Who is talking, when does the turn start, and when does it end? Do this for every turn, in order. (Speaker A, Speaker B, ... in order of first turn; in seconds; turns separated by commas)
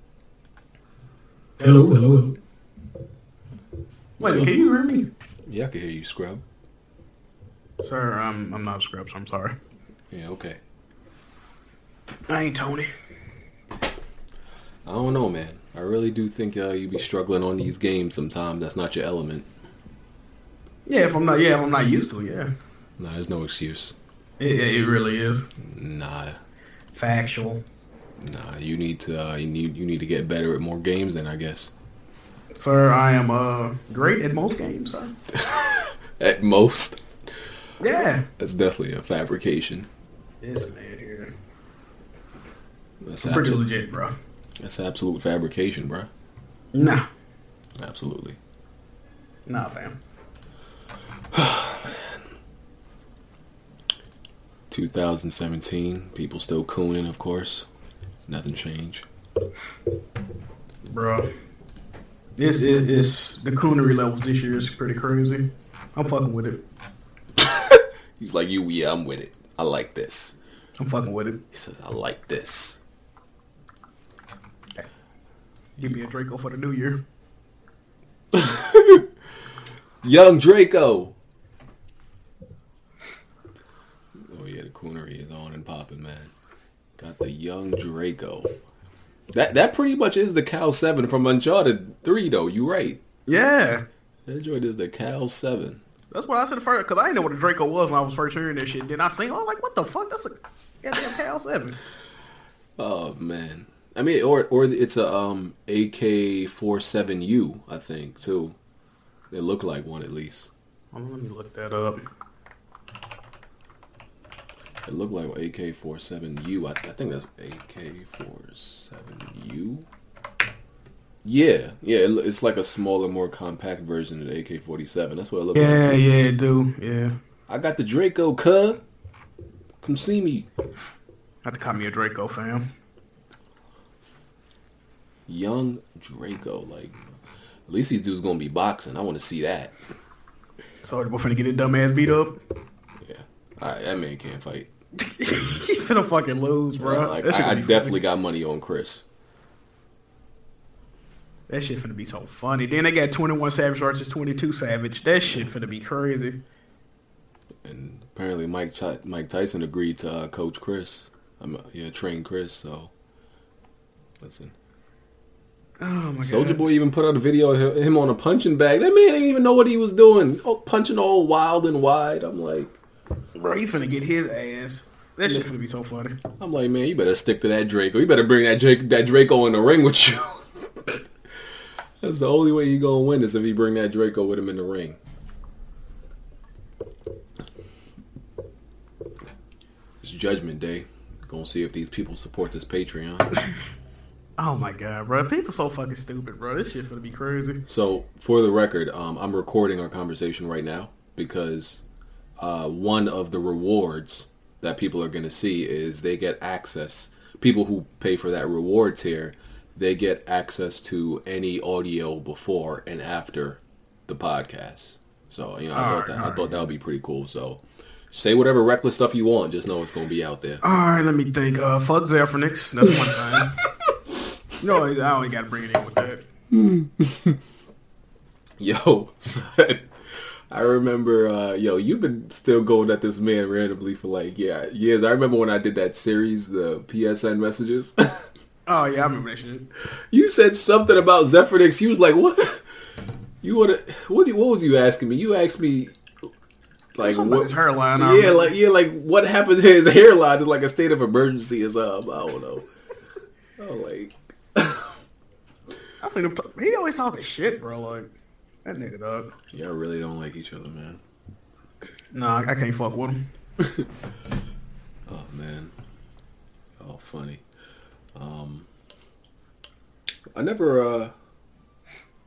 Speaker A: 1.6-2.0, Speaker B: 1.6-2.3, Speaker B: 4.2-4.5, Speaker A: 4.2-5.1, Speaker B: 5.5-6.4, Speaker A: 7.8-9.6, Speaker B: 10.1-10.6, Speaker A: 12.3-12.9, Speaker B: 14.8-19.5, Speaker A: 20.9-22.5, Speaker B: 23.0-24.0, Speaker A: 24.4-25.5, Speaker B: 25.6-26.4, Speaker A: 26.9-27.6, Speaker B: 28.2-31.7, Speaker A: 32.5-35.1, Speaker B: 35.3-37.0, Speaker A: 37.8-38.3, Speaker B: 38.4-39.9, Speaker A: 40.4-41.3, Speaker B: 43.0-43.6, Speaker A: 43.2-44.1, Speaker B: 44.6-46.1, Speaker A: 46.7-47.1, Speaker B: 47.8-48.4, Speaker A: 49.5-50.0, Speaker B: 51.3-52.2, Speaker B: 54.7-57.7, Speaker B: 58.3-59.0, Speaker A: 60.9-61.3, Speaker A: 62.4-66.6, Speaker B: 67.4-70.3, Speaker A: 70.8-71.4, Speaker B: 71.5-72.8, Speaker A: 75.8-77.0, Speaker B: 78.3-79.1, Speaker B: 80.0-81.1, Speaker B: 84.2-86.3, Speaker B: 87.0-88.5, Speaker B: 89.3-93.0, Speaker A: 93.3-93.8, Speaker B: 94.3-95.8, Speaker A: 96.1-101.8, Speaker B: 102.8-108.5, Speaker B: 109.3-110.5, Speaker A: 110.9-112.0, Speaker B: 114.8-119.9, Speaker B: 121.2-126.0, Speaker A: 125.5-127.2, Speaker B: 127.5-128.8, Speaker B: 129.8-130.5, Speaker A: 131.4-132.7, Speaker B: 135.3-137.0, Speaker B: 137.7-139.8, Speaker A: 140.8-142.4, Speaker B: 143.0-144.7, Speaker A: 145.1-148.0, Speaker B: 146.8-149.0, Speaker A: 151.5-156.4, Speaker B: 157.6-162.9, Speaker B: 164.2-164.5, Speaker A: 165.8-166.6, Speaker B: 166.2-172.8, Speaker A: 173.4-176.2, Speaker B: 176.4-181.0, Speaker B: 182.0-185.0, Speaker B: 190.0-193.3, Speaker A: 194.4-197.6, Speaker B: 197.7-201.8, Speaker B: 202.4-220.6, Speaker A: 215.7-216.4, Speaker A: 220.6-223.6, Speaker A: 224.6-226.2, Speaker B: 226.5-227.4, Speaker B: 228.6-238.3, Speaker A: 238.7-239.7, Speaker B: 240.1-242.6, Speaker B: 243.4-246.0, Speaker B: 246.9-252.7, Speaker A: 247.0-248.5, Speaker B: 253.6-254.9, Speaker A: 256.0-258.1, Speaker A: 258.6-259.3, Speaker B: 259.5-261.0, Speaker A: 262.1-263.3, Speaker B: 263.6-263.9, Speaker B: 265.1-265.7, Speaker B: 266.8-267.4, Speaker B: 268.1-268.7, Speaker B: 270.3-271.1